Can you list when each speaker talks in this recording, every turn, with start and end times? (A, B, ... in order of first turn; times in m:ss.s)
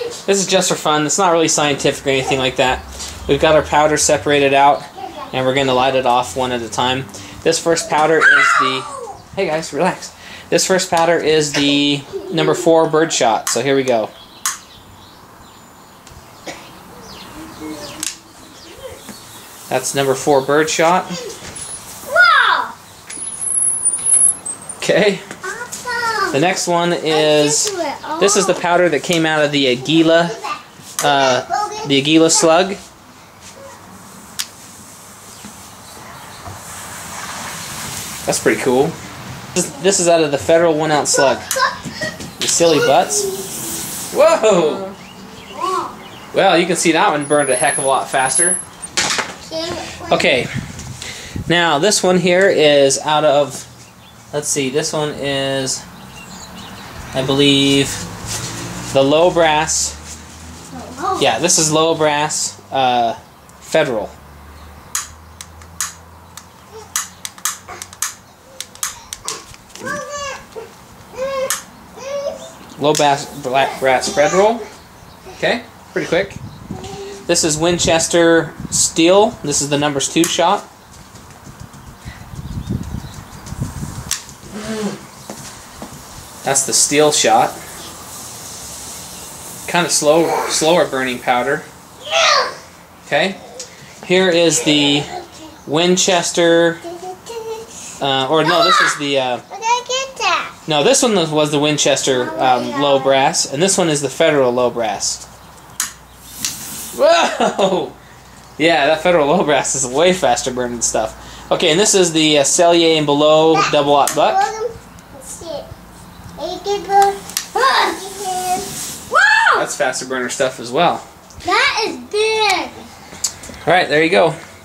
0:00.3-0:14.1 A
0:19.7-0:21.2 A
0:22.1-0:22.8 B
0:24.8-0:25.2 A
0:25.4-0:26.4 B
0:26.3-0:30.4 A
0:27.1-0:28.6 B
0:29.8-0:32.7 B
0:31.0-0:32.8 A
0:38.2-0:39.0 A
0:39.6-0:41.5 A
0:40.9-0:41.9 B
0:42.4-0:43.2 A
0:42.6-0:43.6 B
0:44.1-0:44.9 A
0:45.5-0:46.0 B
0:46.3-0:48.6 A
0:49.4-0:50.4 B
0:50.1-0:50.5 A
0:51.5-0:53.7 A
0:54.3-0:55.8 A
0:57.1-0:58.0 A
0:58.9-1:00.0 A
1:00.7-1:01.3 B
1:01.2-1:04.1 A
1:09.8-1:10.4 B
1:11.1-1:12.5 B
1:12.8-1:14.6 A
1:13.5-1:14.6 B
1:15.4-1:16.4 A
1:17.3-1:20.7 A
1:26.4-1:27.6 A
1:29.7-1:31.7 A
1:32.0-1:32.5 B
1:33.1-1:33.4 A
1:34.0-1:35.1 A
1:35.7-1:36.8 A
1:36.8-1:37.7 B
1:38.0-1:39.4 A
1:38.4-1:39.0 B
1:39.5-1:40.5 B
1:40.7-1:45.2 A
1:42.1-1:43.3 B
1:46.9-1:47.9 A
1:48.6-1:54.5 A
1:53.5-1:55.7 B
1:56.4-1:59.7 B
1:59.6-2:01.0 A
2:01.4-2:02.9 B
2:03.6-2:04.4 A